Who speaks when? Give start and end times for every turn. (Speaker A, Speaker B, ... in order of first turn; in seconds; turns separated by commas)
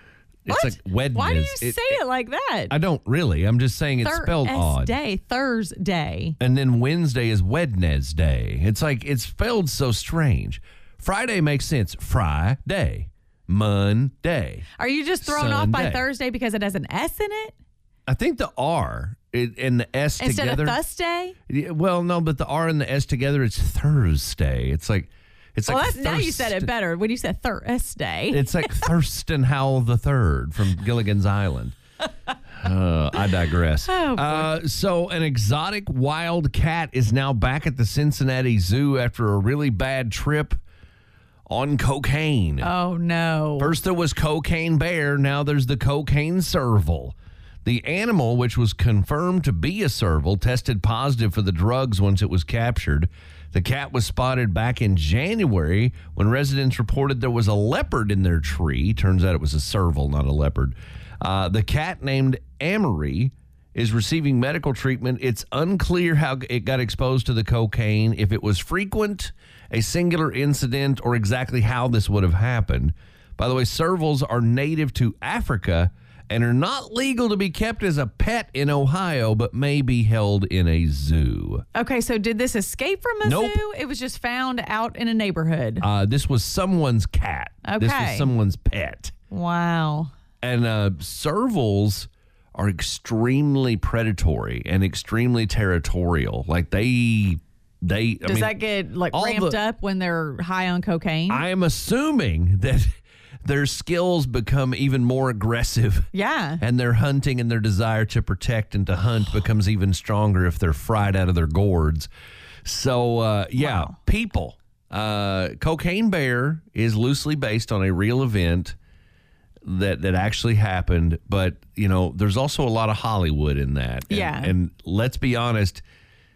Speaker A: 0.5-2.0, Speaker B: 0.5-2.8, Speaker A: 2.7-5.0, Speaker B: 4.0-6.4, Speaker A: 6.4-14.7, Speaker B: 14.8-17.6, Speaker A: 15.2-16.1, Speaker A: 18.1-20.8, Speaker B: 20.2-21.4, Speaker A: 21.5-26.7, Speaker B: 25.7-28.9, Speaker A: 28.3-31.8, Speaker A: 32.5-40.6, Speaker B: 33.9-34.5, Speaker A: 41.5-42.7, Speaker B: 42.6-43.8, Speaker A: 43.6-81.7, Speaker B: 81.8-85.8, Speaker A: 83.2-83.6, Speaker A: 85.8-89.1, Speaker B: 87.7-88.3, Speaker B: 89.3-90.1, Speaker A: 90.4-98.5, Speaker B: 98.2-101.4, Speaker A: 99.1-99.6, Speaker A: 101.3-102.9, Speaker A: 103.5-106.1, Speaker B: 106.1-106.6, Speaker A: 106.6-112.1, Speaker A: 112.7-118.8, Speaker B: 113.6-113.9, Speaker A: 119.7-125.8, Speaker B: 124.1-124.5